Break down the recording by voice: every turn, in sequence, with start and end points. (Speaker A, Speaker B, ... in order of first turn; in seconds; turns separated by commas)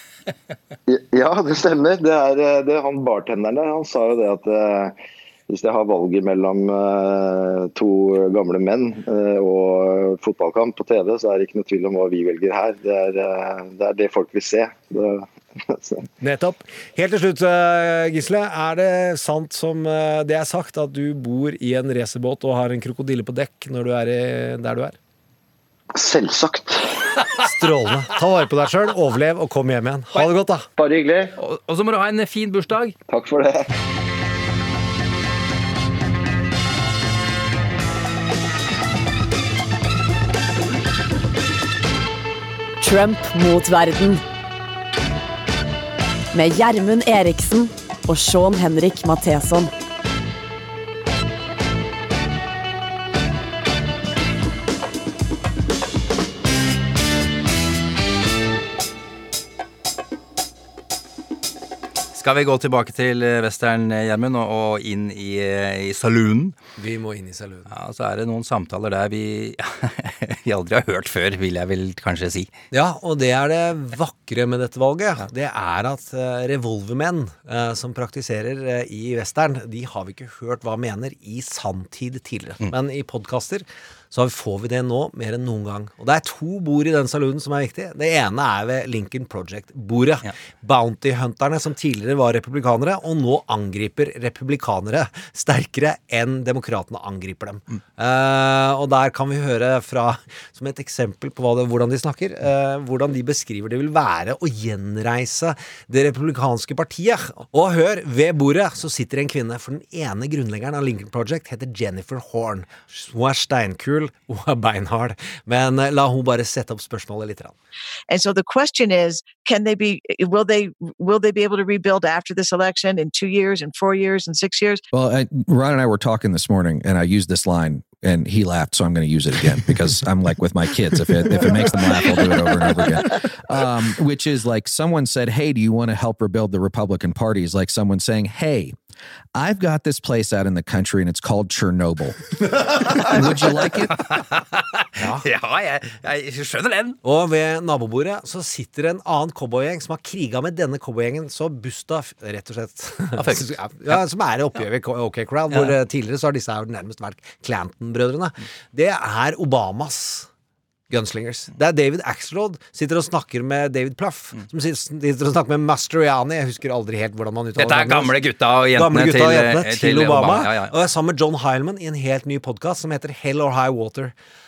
Speaker A: 0.9-4.9, Speaker A: 5.5-16.1, Speaker B: 16.2-24.9, Speaker A: 25.9-26.9, Speaker B: 27.4-30.7, Speaker A: 30.8-31.3, Speaker C: 31.4-32.9, Speaker A: 33.1-33.7, Speaker D: 42.8-44.2, Speaker D: 46.3-49.7, Speaker C: 62.1-66.5, Speaker B: 66.8-67.7, Speaker C: 67.7-72.5, Speaker B: 72.7-117.5, Speaker E: 118.1-124.8, Speaker F: 124.9-138.8, Speaker E: 132.3-132.8, Speaker F: 139.3-142.2, Speaker F: 143.0-143.9, Speaker C: 143.9-147.0, Speaker B: 145.0-145.2, Speaker B: 147.0-160.3, Speaker C: 153.2-154.0, Speaker C: 155.5-155.7, Speaker B: 160.9-168.2, Speaker C: 167.6-170.7, Speaker B: 168.7-174.1